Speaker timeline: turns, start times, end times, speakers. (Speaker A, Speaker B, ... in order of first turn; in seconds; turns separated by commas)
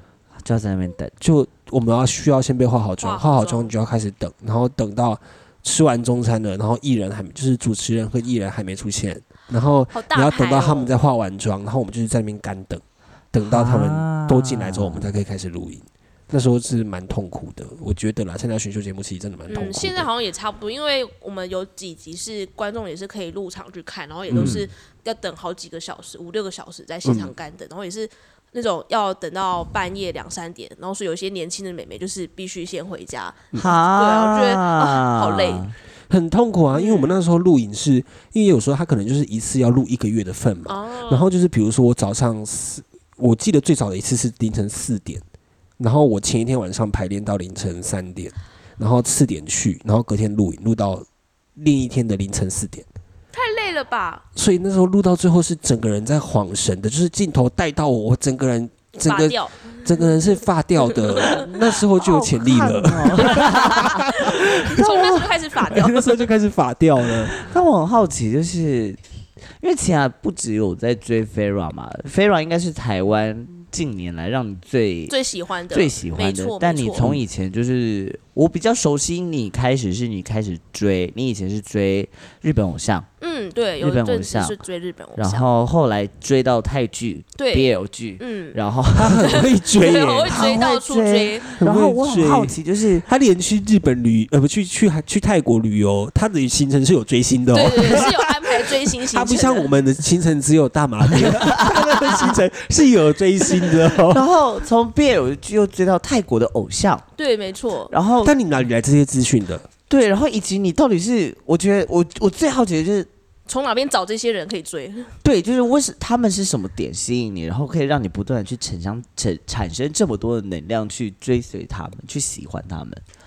Speaker A: 0.4-1.1, Speaker B: 1.2-20.1, Speaker C: 3.0-3.7, Speaker C: 9.9-10.9, Speaker A: 13.4-15.1, Speaker C: 19.5-35.7, Speaker B: 24.3-24.6, Speaker A: 24.4-24.6, Speaker B: 27.0-27.3, Speaker A: 33.6-35.7, Speaker B: 36.1-45.2, Speaker C: 36.7-37.1, Speaker C: 40.7-41.3, Speaker B: 45.8-51.0, Speaker B: 51.6-52.9, Speaker C: 53.3-54.2, Speaker B: 54.3-64.7, Speaker C: 59.0-60.1, Speaker C: 60.9-61.5, Speaker A: 62.0-64.1, Speaker C: 63.3-66.2, Speaker A: 64.7-65.3, Speaker B: 65.7-67.3, Speaker A: 67.3-69.0, Speaker A: 69.6-75.1, Speaker C: 75.1-77.2, Speaker A: 75.7-83.1, Speaker C: 83.2-85.5, Speaker A: 83.8-84.5, Speaker A: 85.2-89.4, Speaker C: 87.4-88.6, Speaker B: 88.9-90.4, Speaker C: 89.2-91.5, Speaker A: 90.3-93.1, Speaker B: 91.6-104.2, Speaker C: 97.5-99.7, Speaker A: 101.2-102.2, Speaker A: 103.7-107.0, Speaker C: 107.2-107.9, Speaker A: 107.9-108.3, Speaker B: 108.2-109.7, Speaker A: 109.9-113.1, Speaker C: 113.5-115.1, Speaker A: 115.2-123.0